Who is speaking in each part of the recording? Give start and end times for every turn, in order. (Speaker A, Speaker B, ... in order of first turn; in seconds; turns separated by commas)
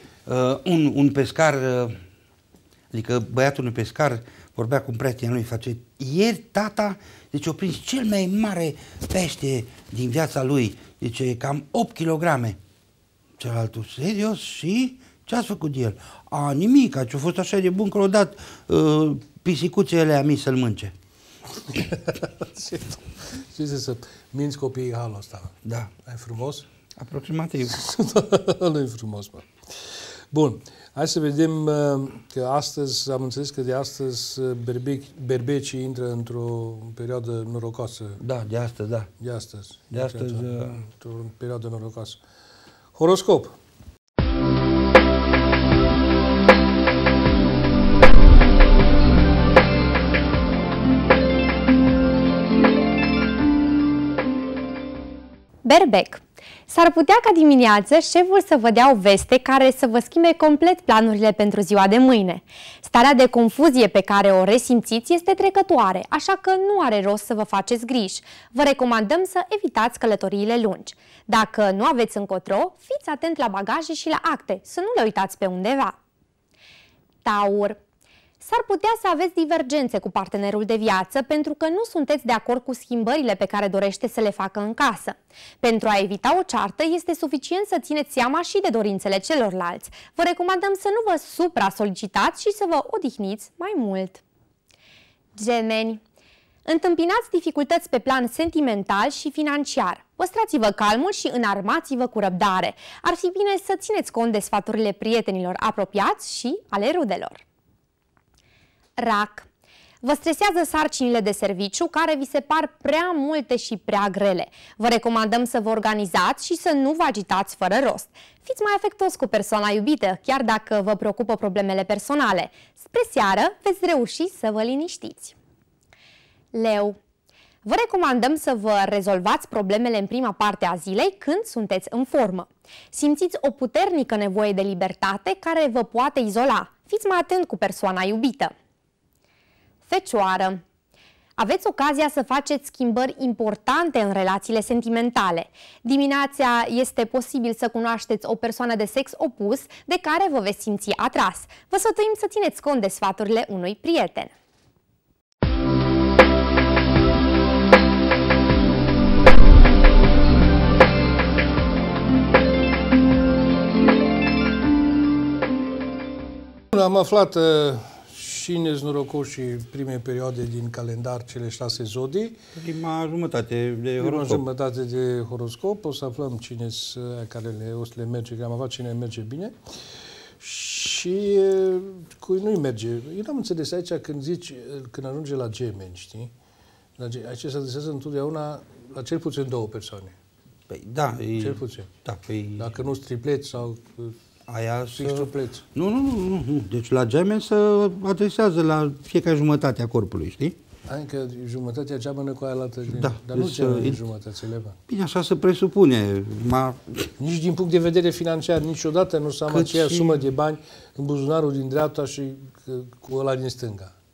Speaker A: 0.3-2.0, Speaker A: 2.9-12.6, Speaker A: 13.4-20.9, Speaker B: 21.7-26.7, Speaker A: 25.6-25.9, Speaker A: 27.0-27.8, Speaker B: 27.7-29.5, Speaker B: 30.3-38.2, Speaker A: 38.2-39.1, Speaker B: 39.2-42.2, Speaker A: 39.9-40.8, Speaker B: 43.0-43.6, Speaker C: 55.6-76.0, Speaker C: 77.2-77.8, Speaker C: 78.4-94.2, Speaker C: 95.4-96.0, Speaker C: 96.7-107.4, Speaker C: 109.0-109.5, Speaker C: 110.0-125.3, Speaker C: 126.5-127.0, Speaker C: 127.6-138.5, Speaker C: 139.9-140.6, Speaker C: 141.4-154.3, Speaker B: 166.7-172.4, Speaker A: 172.6-174.4, Speaker B: 174.0-179.6, Speaker B: 180.4-186.3, Speaker B: 187.0-190.2, Speaker A: 190.7-192.7, Speaker B: 191.4-191.9, Speaker B: 192.6-194.2, Speaker A: 194.5-200.6, Speaker B: 194.9-195.7, Speaker B: 200.9-204.8, Speaker A: 202.9-204.0, Speaker A: 204.9-207.1, Speaker B: 207.2-213.9, Speaker A: 209.5-210.2